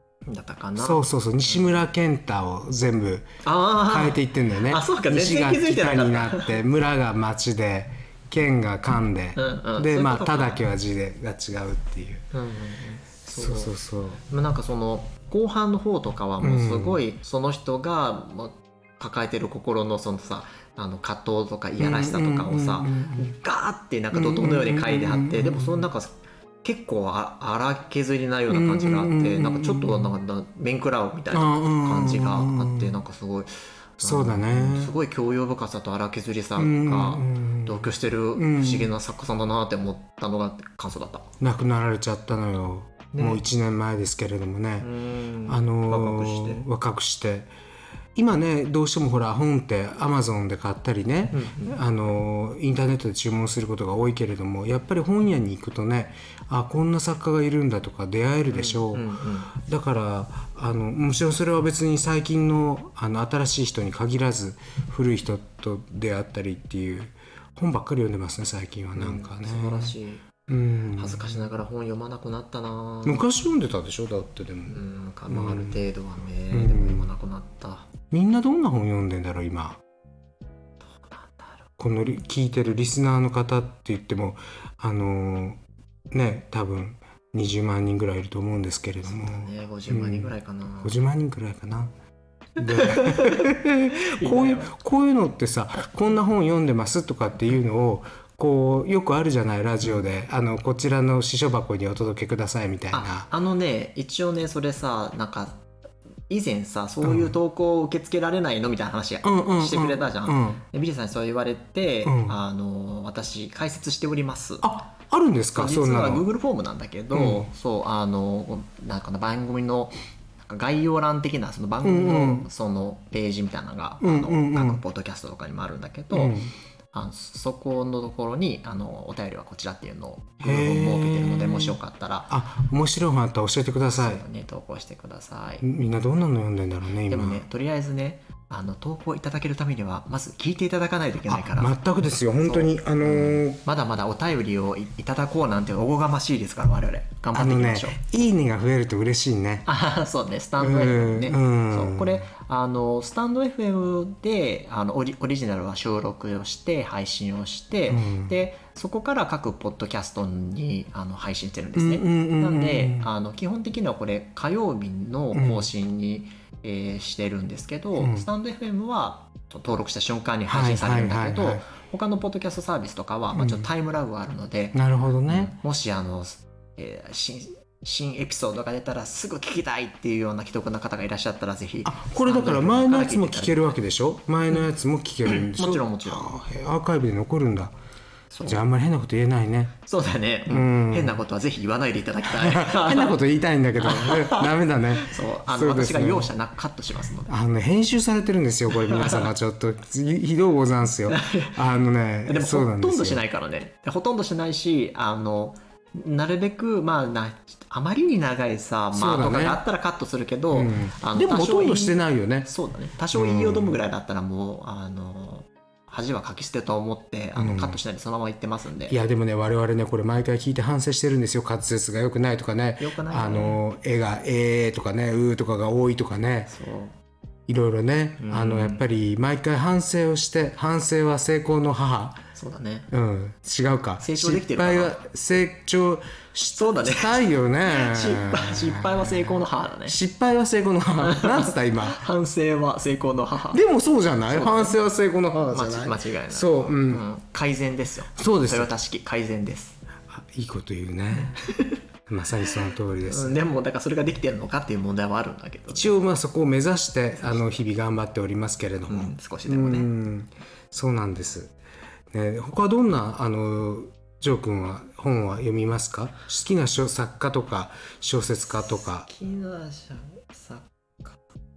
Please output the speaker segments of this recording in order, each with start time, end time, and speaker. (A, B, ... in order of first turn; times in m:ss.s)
0:00.3-0:01.8 A
0:00.8-0:03.3 B
0:03.4-0:06.6 A
0:03.9-0:12.2 B
0:09.3-0:10.6 A
0:12.3-0:13.7 A
0:13.3-0:14.2 B
0:14.3-0:41.3 A
0:16.4-0:17.0 B
0:21.8-0:23.3 B
0:24.1-0:25.9 B
0:28.5-0:30.1 B
0:31.3-0:33.0 B
0:34.0-0:34.9 B
0:36.6-0:38.9 B
0:41.4-0:44.9 B
0:43.1-0:43.4 A
0:44.8-0:46.6 A
0:45.5-0:47.5 B
0:48.1-1:09.9 B
0:51.3-0:51.8 A
0:58.5-0:59.5 A
1:08.9-1:10.3 A
1:10.5-1:11.5 B
1:10.9-1:13.2 A
1:13.0-1:15.8 B
1:14.7-1:17.9 A
1:16.5-1:17.1 B
1:18.1-1:19.8 B
1:21.0-1:21.6 A
1:21.8-1:25.6 B
1:26.1-1:31.9 B
1:29.0-1:31.0 A
1:32.6-1:43.3 B
1:32.6-1:34.7 A
1:42.9-1:45.6 A
1:46.3-1:54.7 A
1:47.0-1:47.3 B
1:49.2-1:50.6 B
1:52.0-1:52.4 B
1:54.6-1:56.2 B
1:55.5-2:06.4 A
1:57.1-1:57.5 B
2:01.8-2:02.5 B
2:04.0-2:04.8 B
2:06.1-2:06.5 B
2:06.9-2:12.3 A
2:10.4-2:11.8 B
2:12.3-2:14.2 B
2:13.9-2:15.6 A
2:15.6-2:17.4 B
2:17.1-2:21.8 A
2:21.3-2:23.6 B
2:22.4-2:28.0 A
2:27.3-2:29.7 B
2:29.6-3:03.8 A
2:30.6-2:32.2 B
2:37.9-2:38.3 B
2:41.8-2:43.1 B
2:45.3-2:45.7 B
2:48.0-2:48.3 B
2:50.5-2:51.6 B
2:53.3-2:53.7 B
2:54.7-2:55.5 B
3:01.8-3:07.7 B
3:05.2-3:06.3 A
3:08.3-3:08.6 A
3:08.4-3:09.7 B
3:09.8-3:13.2 A
3:10.5-3:11.2 B
3:12.2-3:16.3 B
3:13.8-3:17.3 A
3:17.3-3:23.2 B
3:18.7-3:19.3 A
3:21.1-3:21.6 A
3:22.3-3:39.0 A
3:28.9-3:29.6 B
3:30.5-3:32.5 B
3:33.1-3:33.8 B
3:37.4-3:37.8 B
3:38.9-3:46.5 B
3:42.8-3:43.6 A
3:46.5-3:46.9 A
3:47.5-3:52.2 B
3:48.2-3:48.8 A
3:52.3-3:52.9 A
3:52.9-4:02.0 B
3:54.0-3:55.0 A
3:56.6-4:00.0 A
4:01.0-4:03.6 A
4:03.5-4:07.0 B
4:04.3-4:04.8 A
4:05.4-4:09.8 A
4:08.2-4:08.7 B
4:10.1-4:11.4 B
4:11.1-4:11.8 A
4:12.1-4:13.4 B
4:13.0-4:16.0 A
4:15.7-4:21.5 B
4:18.9-4:19.9 A
4:22.1-4:29.1 B
4:29.0-4:31.2 A